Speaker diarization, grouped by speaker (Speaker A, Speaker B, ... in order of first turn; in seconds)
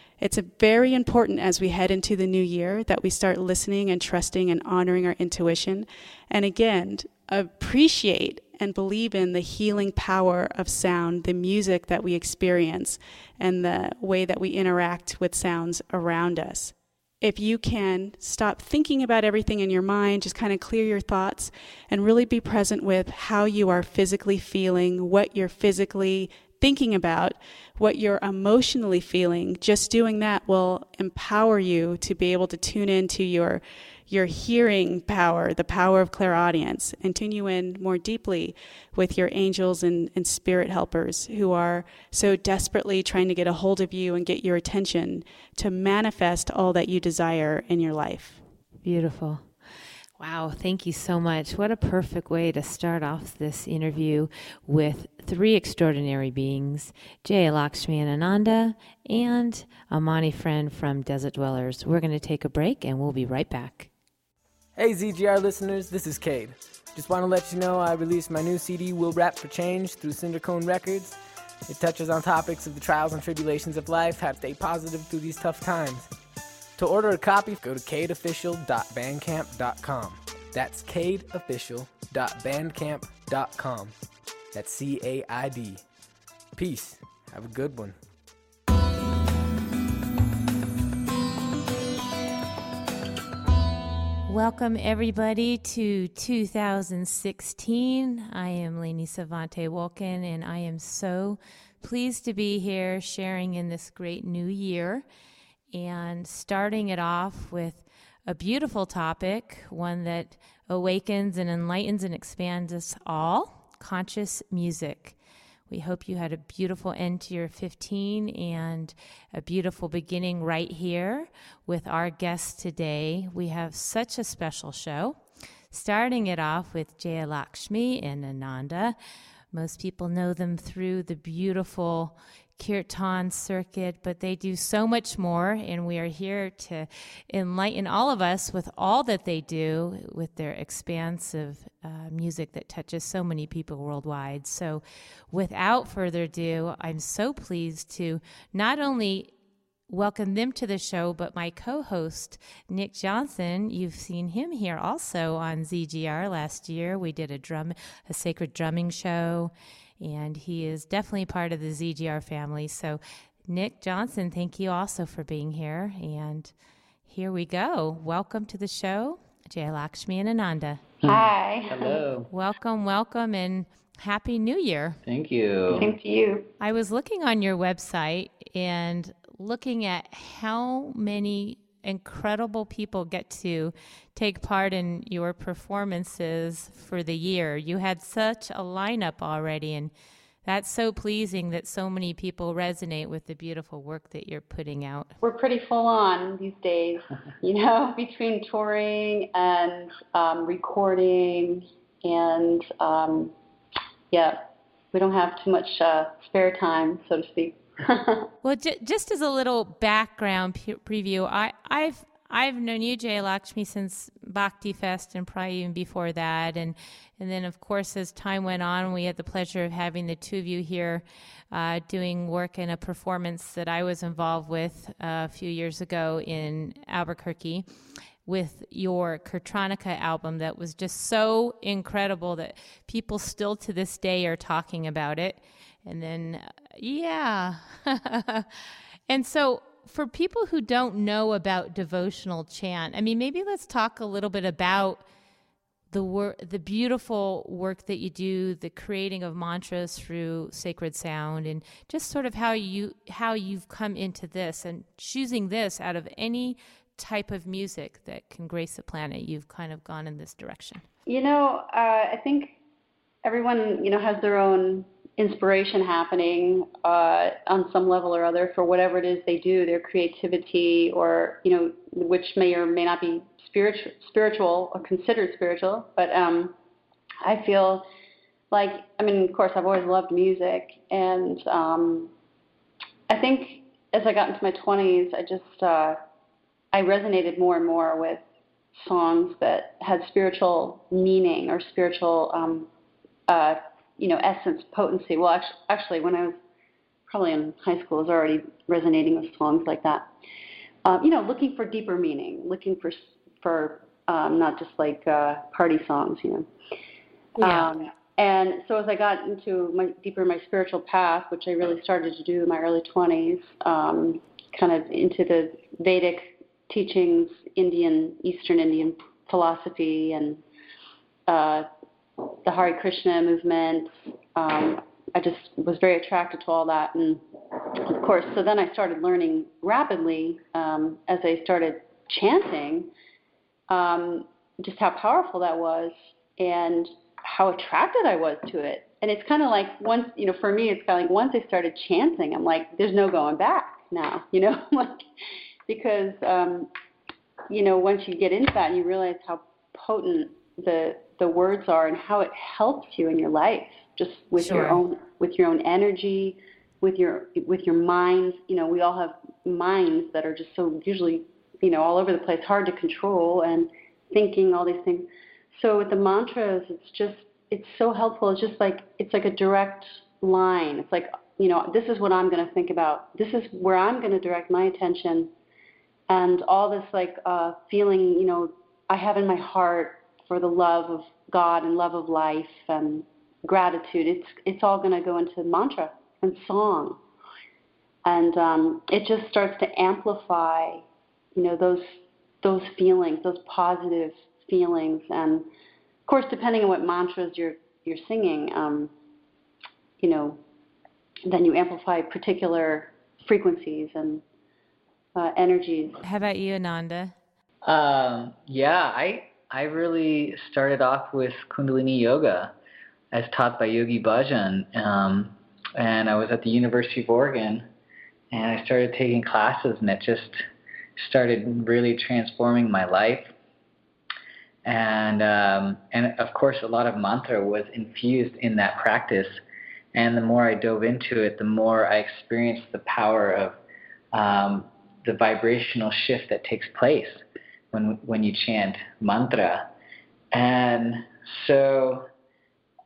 Speaker A: 0.2-48.4
Speaker B: 48.8-49.5, 50.2-63.9, 94.3-105.0, 105.7-115.2, 115.7-125.2, 125.7-128.9, 129.5-149.3, 149.9-166.5, 167.1-170.8, 172.3-175.0, 176.6-189.9, 190.4-195.1, 208.4-227.7, 228.2-245.0, 245.9-260.8, 307.4-307.7, 354.4-354.8, 406.0-407.1
Speaker C: 64.8-71.2, 71.7-76.1, 76.8-83.9, 84.5-85.8, 86.5-88.0
Speaker D: 171.0-172.3, 175.0-175.9, 407.6-412.5, 413.1-417.6, 418.3-420.4, 421.0-423.3, 424.6-429.4, 429.9-433.6, 434.1-437.2, 437.7-439.7, 440.3-442.1
Speaker E: 171.0-172.1, 175.7-176.5, 195.2-203.3, 204.1-208.3, 261.1-262.6, 263.2-276.5, 277.2-277.9, 278.5-282.1, 283.1-286.0, 286.7-288.2, 288.8-292.7, 293.3-296.4, 297.1-300.1, 300.8-306.5, 307.4-320.4, 321.3-321.7, 322.2-332.9, 333.7-345.0, 345.7-346.7, 347.5-375.3, 376.1-387.0, 388.0-390.8, 391.4-395.5, 396.1-398.9, 400.0-400.4, 401.3-404.2, 405.1-406.0